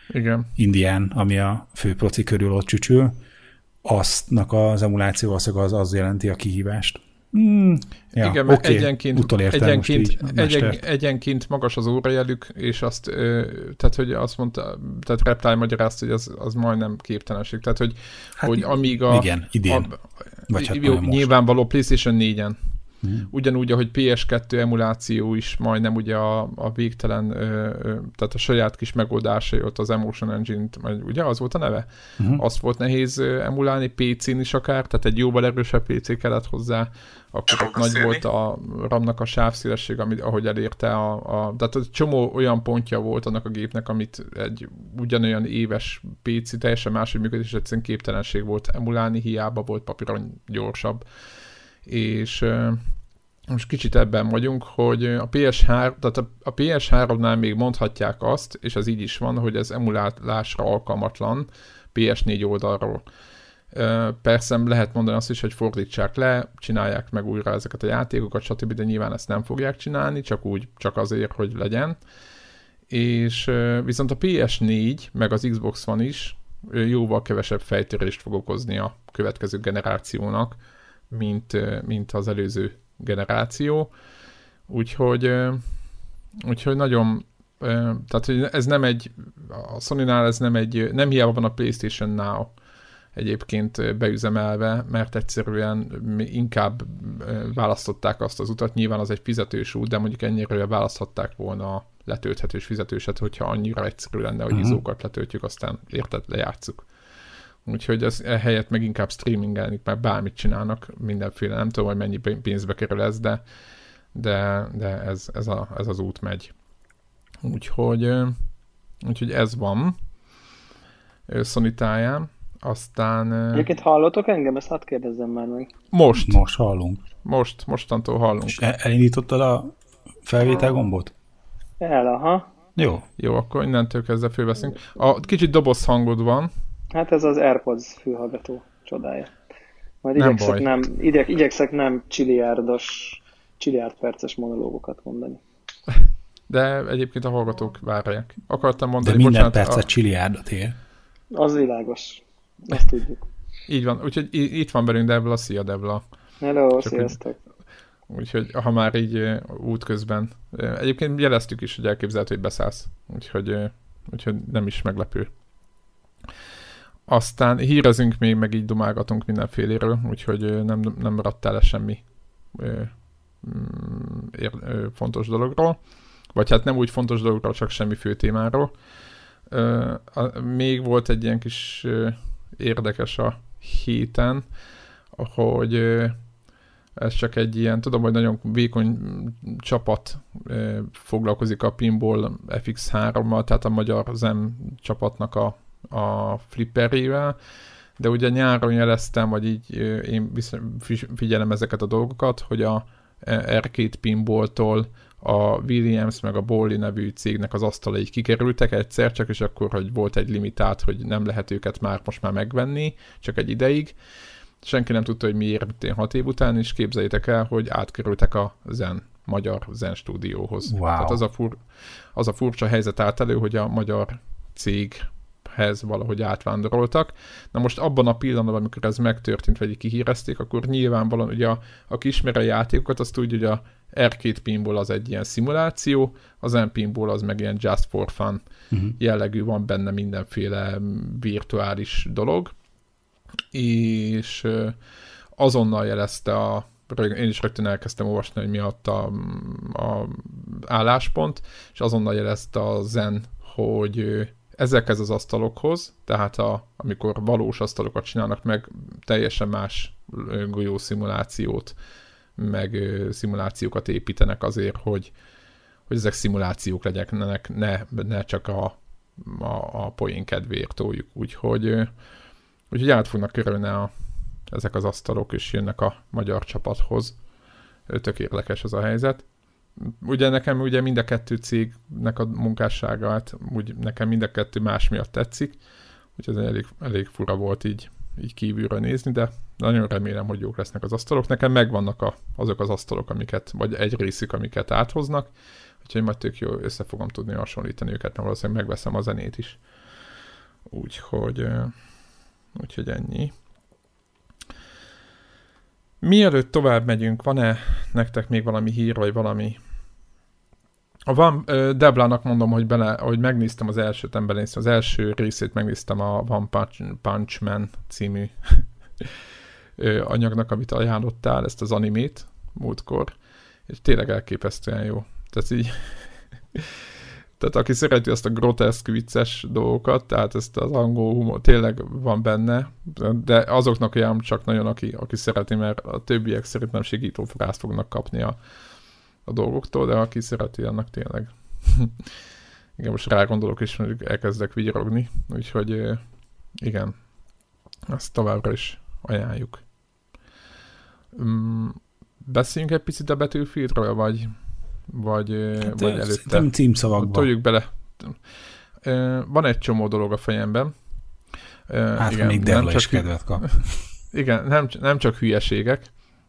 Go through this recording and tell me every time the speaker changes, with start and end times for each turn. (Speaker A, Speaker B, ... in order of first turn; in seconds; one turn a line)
Speaker A: 0.1-0.5
Speaker B: 0.6-3.2
Speaker B: 3.8-10.8
Speaker A: 8.1-22.6
Speaker B: 18.4-19.9
Speaker B: 20.5-21.3
Speaker B: 23.0-23.3
Speaker A: 23.3-51.0
Speaker B: 32.2-32.4
Speaker A: 51.8-52.8
Speaker A: 53.5-63.0
Speaker A: 63.7-72.0
Speaker A: 72.9-80.6
Speaker A: 81.1-83.9
Speaker A: 84.7-85.6
Speaker A: 86.4-92.5
Speaker A: 93.1-106.9
Speaker B: 104.5-104.8
Speaker A: 107.6-113.4
Speaker A: 114.1-116.5
Speaker A: 117.4-118.3
Speaker A: 119.0-120.0
Speaker A: 121.3-123.7
Speaker C: 123.5-125.7
Speaker A: 125.9-126.4
Speaker B: 126.2-127.0
Speaker A: 127.2-128.6
Speaker B: 128.5-131.1
Speaker C: 131.8-132.5
Speaker B: 132.8-133.1
Speaker A: 133.2-136.5
Speaker C: 136.9-139.3
Speaker C: 140.0-145.4
Speaker A: 140.2-140.7
Speaker A: 146.5-149.8
Speaker B: 149.0-150.8
Speaker C: 151.3-153.3
Speaker A: 153.7-156.0
Speaker C: 156.4-157.4
Speaker A: 156.8-157.2
Speaker A: 158.1-165.3
Speaker A: 167.1-175.8
Speaker A: 176.3-178.7
Speaker A: 179.5-184.4
Speaker A: 185.2-186.2
Speaker A: 187.0-197.4
Speaker A: 198.0-213.9
Speaker A: 214.6-221.6
Speaker B: 220.7-221.2
Speaker A: 222.1-238.4
Speaker B: 238.7-238.9
Speaker A: 239.0-242.5
Speaker A: 243.5-244.8
Speaker A: 245.4-261.8
Speaker A: 262.4-265.1
Speaker A: 265.9-271.9
Speaker A: 272.7-273.9
Speaker A: 274.5-277.2
Speaker A: 277.9-279.2
Speaker A: 279.8-285.6
Speaker A: 286.1-295.3
Speaker A: 295.8-299.6
Speaker A: 300.7-301.7
Speaker A: 302.5-303.3
Speaker A: 306.0-309.6
Speaker A: 311.1-319.1
Speaker A: 319.8-323.1
Speaker A: 323.7-326.7
Speaker A: 327.4-338.4
Speaker A: 339.2-342.1
Speaker A: 342.8-346.0
Speaker A: 346.6-347.0
Speaker A: 347.9-349.6
Speaker A: 351.1-358.2
Speaker B: 355.6-357.3
Speaker A: 358.8-360.7
Speaker A: 361.7-363.6
Speaker B: 362.0-363.8
Speaker A: 364.1-365.9